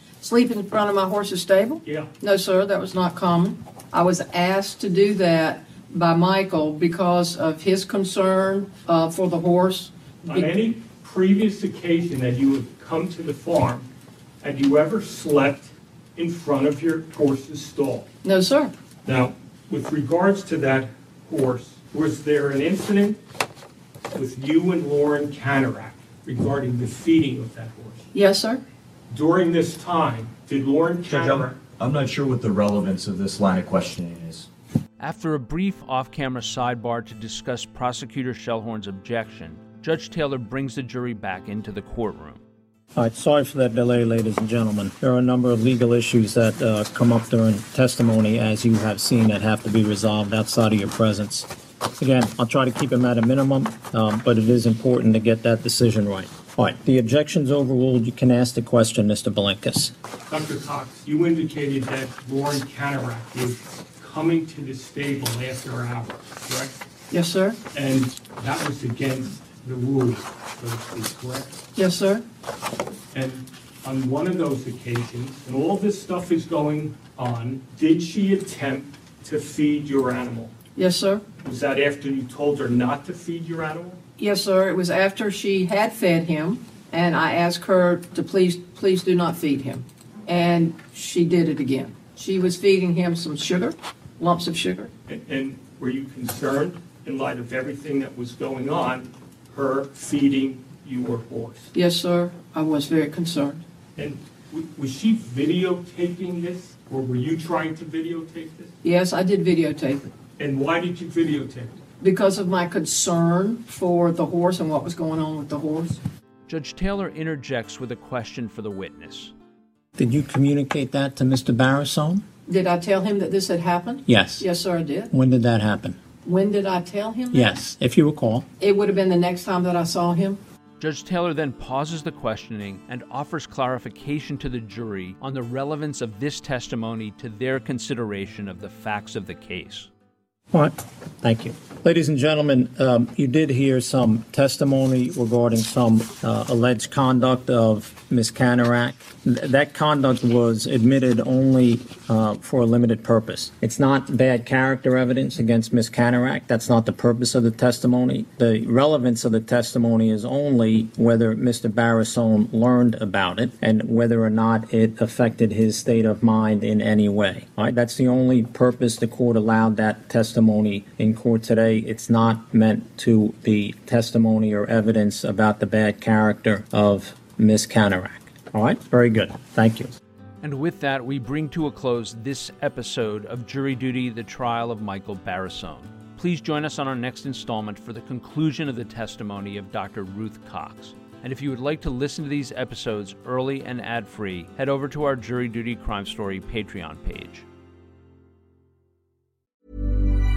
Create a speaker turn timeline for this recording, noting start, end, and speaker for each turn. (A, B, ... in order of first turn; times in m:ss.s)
0:00.2-0:10.5 A
0:01.8-0:02.1 B
0:10.3-0:13.9 B
0:14.4-0:18.1 B
0:18.2-0:18.7 A
0:19.0-0:23.2 B
0:24.1-0:28.1 B
0:28.1-0:28.6 A
0:29.1-0:31.6 B
0:31.1-0:34.5 C
0:35.0-0:42.4 D
0:42.9-0:59.9 E
1:00.3-1:06.8 B
1:07.1-1:07.6 A
1:07.7-1:11.6 B
1:11.8-1:12.2 A
1:13.1-1:20.5 B
1:20.8-1:21.2 A
1:21.4-1:24.0 B
1:24.2-1:34.9 A
1:35.1-1:41.7 B
1:41.7-1:43.6 A
1:44.0-1:48.7 B
1:48.8-1:50.1 A
1:50.4-1:51.8 B
1:52.0-1:56.0 A
1:56.5-1:59.3 D
2:00.0-2:02.2 E
2:02.5-2:05.1 A
2:04.1-2:04.5 E
2:05.1-2:06.0 E
2:06.2-2:07.6 A
2:07.3-2:08.4 E
2:08.6-2:10.4 A
2:10.8-2:19.9 D
2:20.5-3:00.0 E
3:00.4-3:17.4 D